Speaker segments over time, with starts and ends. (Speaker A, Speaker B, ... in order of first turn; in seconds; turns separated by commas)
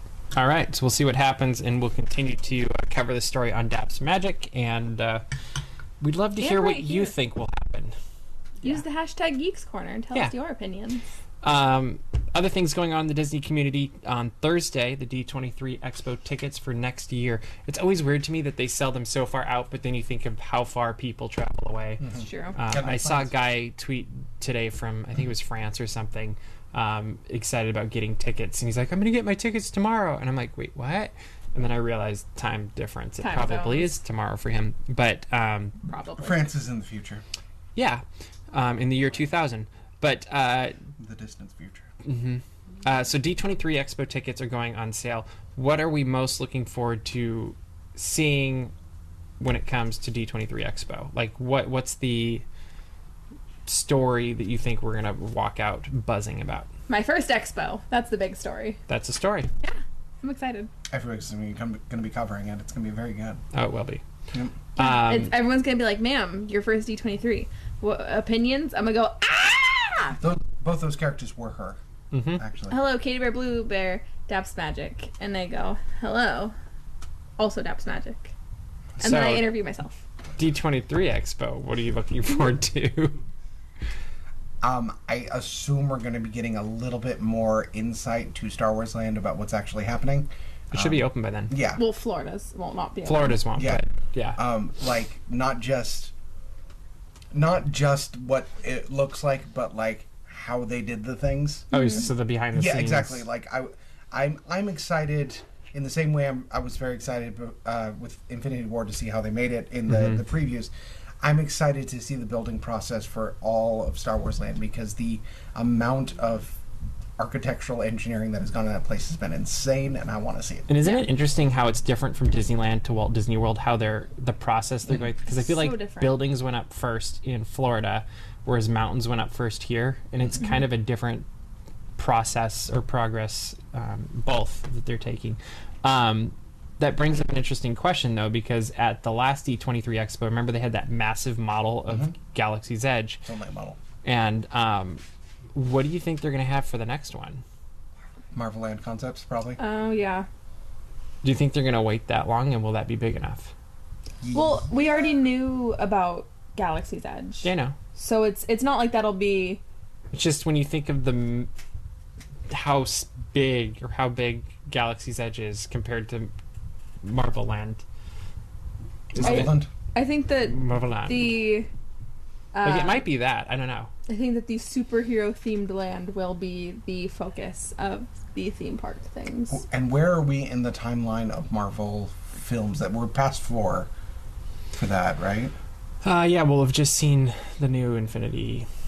Speaker A: 0.3-5.2, Speaker A: 6.0-7.9, Speaker B: 6.4-7.1, Speaker B: 8.6-11.1, Speaker A: 11.4-22.1, Speaker C: 22.0-23.3, Speaker B: 22.1-22.6, Speaker A: 22.6-35.8, Speaker B: 33.2-33.9, Speaker B: 35.9-36.4, Speaker C: 36.2-37.2, Speaker A: 37.8-40.8, Speaker C: 41.0-41.9, Speaker A: 42.0-48.7, Speaker A: 49.4-52.5, Speaker A: 53.7-56.7, Speaker B: 56.9-58.8, Speaker A: 58.9-59.5, Speaker B: 59.6-60.7, Speaker C: 60.9-63.4, Speaker A: 63.5-64.0, Speaker A: 64.8-65.3, Speaker B: 64.8-70.2, Speaker C: 70.2-71.8, Speaker A: 72.1-72.4, Speaker C: 72.4-72.8, Speaker B: 72.7-76.5, Speaker B: 77.4-78.3, Speaker A: 79.0-79.5, Speaker B: 79.0-80.0, Speaker A: 80.4-83.2, Speaker C: 84.6-91.8, Speaker A: 90.7-91.5, Speaker B: 91.8-93.4, Speaker A: 93.0-94.4, Speaker C: 93.5-93.8, Speaker C: 94.3-96.1, Speaker C: 97.3-101.7, Speaker B: 101.7-102.1, Speaker A: 101.7-103.2, Speaker C: 102.5-110.7, Speaker A: 109.9-110.2, Speaker C: 111.2-116.6, Speaker C: 117.2-120.7, Speaker A: 120.7-131.3, Speaker B: 120.8-121.1, Speaker B: 125.3-126.2, Speaker A: 132.0-143.2, Speaker C: 141.9-142.1, Speaker C: 143.2-143.8, Speaker A: 144.0-145.0, Speaker A: 145.5-147.4, Speaker C: 148.3-149.6, Speaker B: 149.6-150.3, Speaker A: 151.2-153.5, Speaker C: 154.2-154.6, Speaker B: 154.3-159.6, Speaker A: 157.4-157.8, Speaker A: 160.1-161.5, Speaker A: 162.5-166.3, Speaker A: 167.0-167.8, Speaker A: 169.1-169.6, Speaker C: 169.1-169.7, Speaker B: 169.2-171.7, Speaker A: 170.4-171.4, Speaker B: 172.5-173.1, Speaker A: 172.6-173.9, Speaker B: 174.1-179.6, Speaker C: 179.5-183.9, Speaker C: 184.7-185.5, Speaker A: 186.0-188.7